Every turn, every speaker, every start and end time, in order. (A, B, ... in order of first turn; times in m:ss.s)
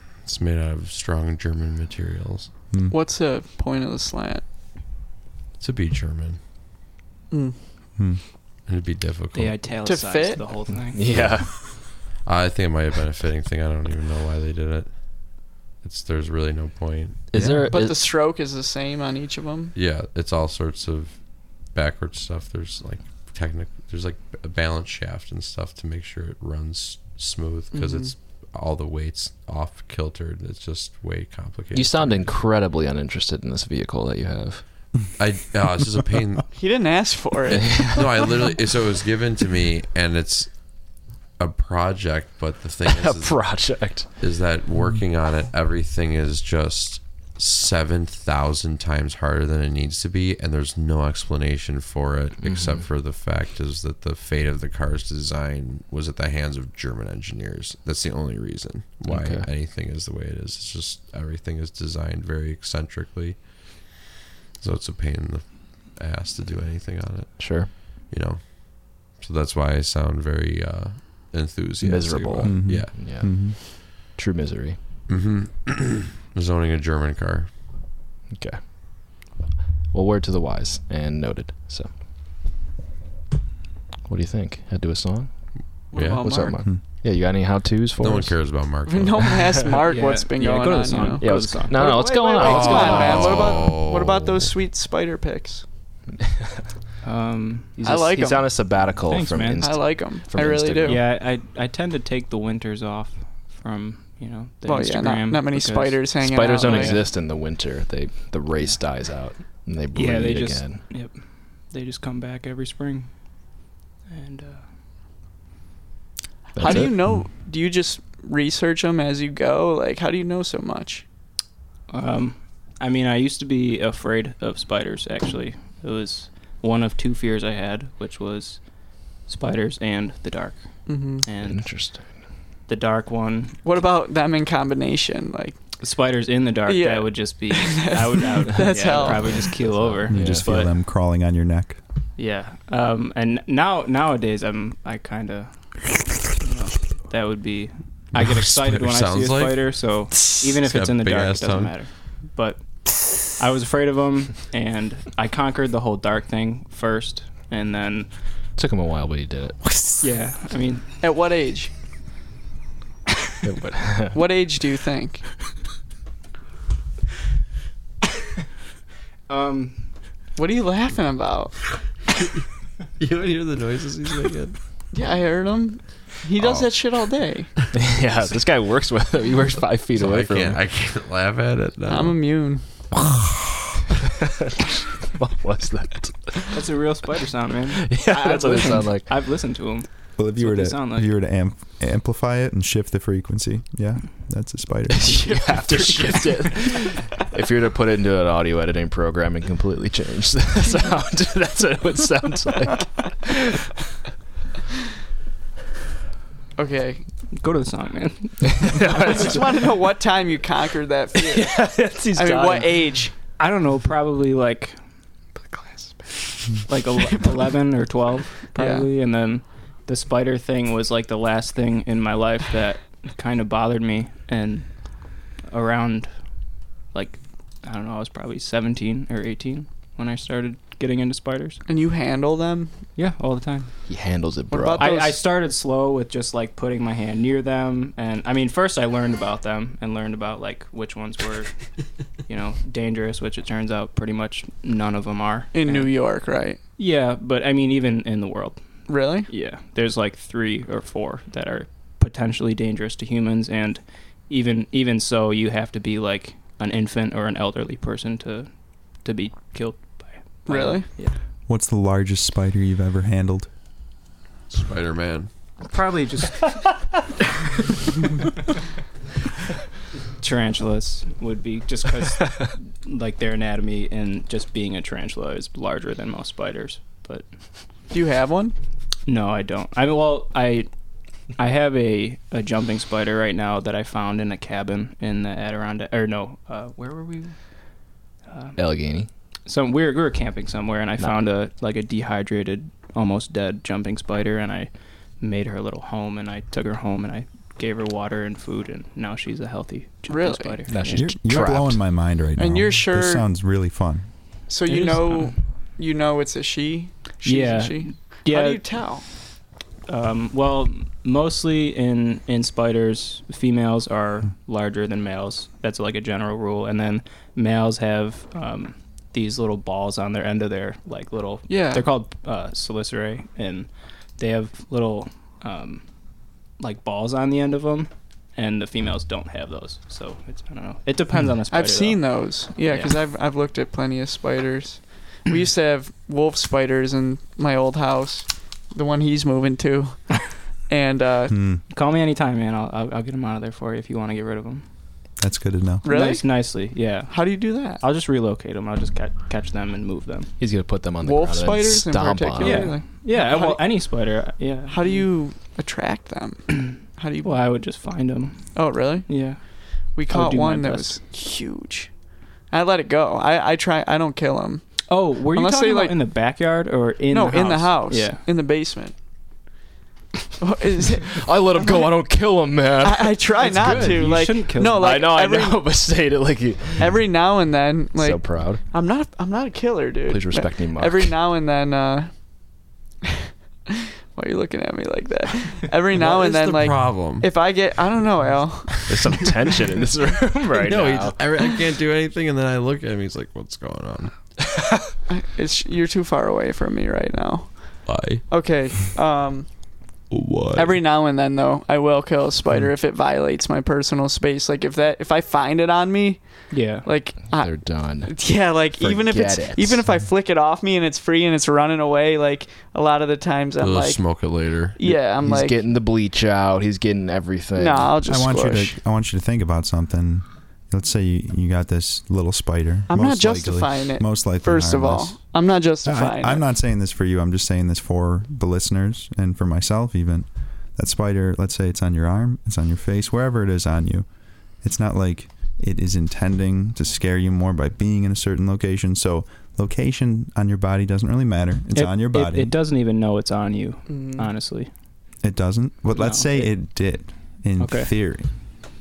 0:00.2-0:02.5 A
0:02.9-0:04.4 B
0:05.6-0:06.4 A
0:07.3-0:07.6 B
0:08.0-0:08.2 C
0:08.6-0:09.7 A
0:09.3-0:11.1 D
0:09.8-0:10.5 B
0:10.9-0:11.5 E
0:11.1-0:17.3 A
0:17.3-0:18.0 E
0:17.3-0:17.7 C
0:17.7-0:19.7 B
0:19.7-0:32.3 A
0:27.7-0:28.1 B
0:31.7-0:34.6 E
0:35.1-0:36.5 A
0:36.5-0:38.0 B
0:37.6-1:04.0 A
0:42.9-0:44.1 E
0:52.4-0:52.8 E
0:59.1-0:59.4 E
1:04.6-1:13.3 A
1:07.4-1:07.7 E
1:11.8-1:14.8 E
1:12.4-1:13.6 C
1:15.1-1:17.5 A
1:18.3-1:18.7 E
1:19.9-1:21.9 E
1:24.0-1:28.5 E
1:25.9-1:26.6 B
1:25.9-1:26.6 A
1:28.0-1:29.6 A
1:28.8-1:35.6 B
1:29.8-1:32.0 D
1:31.2-1:33.6 E
1:32.4-1:34.5 A
1:32.7-1:32.9 D
1:37.0-1:37.8 D
1:37.7-1:41.0 E
1:37.8-1:38.5 B
1:39.0-1:40.1 D
1:39.6-1:41.1 B
1:40.8-1:47.0 D
1:44.6-1:47.0 B
1:46.2-1:50.8 E
1:49.9-1:54.7 D
1:56.5-1:57.0 E
1:56.6-2:01.0 B
2:01.9-2:11.7 D
2:10.8-2:11.2 B
2:11.4-2:12.1 E
2:12.6-2:13.6 D
2:13.6-2:15.6 B
2:15.8-2:20.7 D
2:16.6-2:19.5 B
2:18.8-2:20.5 E
2:20.1-2:21.8 C
2:22.2-2:38.1 D
2:28.2-2:31.8 A
2:38.6-2:39.6 E
2:40.0-2:40.9 D
2:41.0-2:41.7 B
2:43.4-2:44.2 E
2:44.1-2:45.3 B
2:49.3-2:49.9 D
2:50.4-2:51.6 B
2:53.0-2:54.6 A
2:54.9-2:57.5 B
2:56.4-2:56.7 A
2:57.7-3:00.6 E
2:59.9-3:02.2 A
3:01.9-3:02.6 B
3:05.1-3:06.6 E
3:06.5-3:11.1 D
3:07.8-3:09.1 E
3:10.2-3:15.6 C
3:15.0-3:23.4 E
3:15.6-3:16.2 D
3:26.6-3:27.0 B
3:27.3-3:29.7 D
3:29.0-3:29.3 E
3:29.0-3:33.2 B
3:31.3-3:32.7 D
3:31.8-3:32.6 E
3:33.4-3:34.8 D
3:35.4-3:46.1 D
3:38.5-3:38.9 B
3:46.9-3:51.6 D
3:51.7-3:52.7 B
3:53.0-3:53.7 D
3:53.8-3:55.0 E
3:54.5-3:55.2 B
3:54.8-4:01.5 D
4:02.2-4:05.9 D
4:05.5-4:06.6 B
4:06.8-4:08.6 D
4:08.9-4:09.3 B
4:09.2-4:21.2 D
4:20.5-4:20.9 B
4:21.5-4:23.5 C
4:24.5-4:25.3 A
4:25.6-4:27.0 D
4:30.2-4:37.2 D
4:37.9-4:38.5 B
4:39.0-4:40.7 D
4:41.4-4:47.3 D
4:48.3-4:48.6 D
4:48.6-4:49.1 E
4:49.4-5:01.1 D
5:00.1-5:00.6 B
5:00.7-5:01.8 E
5:00.9-5:04.1 C
5:02.4-5:03.2 B
5:04.5-5:09.1 B
5:04.6-5:05.4 D
5:07.2-5:08.6 D
5:09.9-5:25.8 D
5:21.5-5:21.9 B
5:26.6-5:32.0 D
5:31.5-5:41.5 B
5:32.6-5:32.9 D
5:41.3-5:41.6 C
5:41.7-5:44.6 D
5:45.2-5:45.8 C
5:45.8-5:47.8 B
5:45.8-5:50.3 D
5:50.4-5:52.7 E
5:51.0-5:53.9 B
5:52.4-5:55.0 D
5:54.7-5:57.5 B
5:56.6-5:59.4 D
5:58.5-6:02.0 B
6:00.1-6:01.0 D
6:02.5-6:06.0 B
6:04.9-6:08.2 D
6:07.1-6:09.0 B
6:10.4-6:11.9 B
6:11.1-6:17.0 E
6:12.8-6:15.6 B
6:13.4-6:15.0 D
6:16.8-6:22.3 B
6:18.0-6:18.6 E
6:20.1-6:21.1 E
6:23.2-6:29.2 B
6:25.9-6:27.3 A
6:28.9-6:31.2 E
6:30.5-6:34.2 A
6:35.1-6:39.5 B
6:37.8-6:38.3 A
6:40.1-6:40.8 A
6:40.5-6:55.6 B
6:46.5-6:46.9 D
6:47.3-6:49.8 E
6:53.6-6:54.8 A
6:54.8-6:57.9 E
6:57.5-6:58.7 B
6:58.0-7:05.2 C
7:02.9-7:06.4 B
7:05.8-7:14.1 C
7:14.6-7:22.5 C
7:21.7-7:24.7 D
7:23.9-7:24.3 B
7:25.2-7:28.3 C
7:25.9-7:26.5 D
7:27.6-7:27.9 D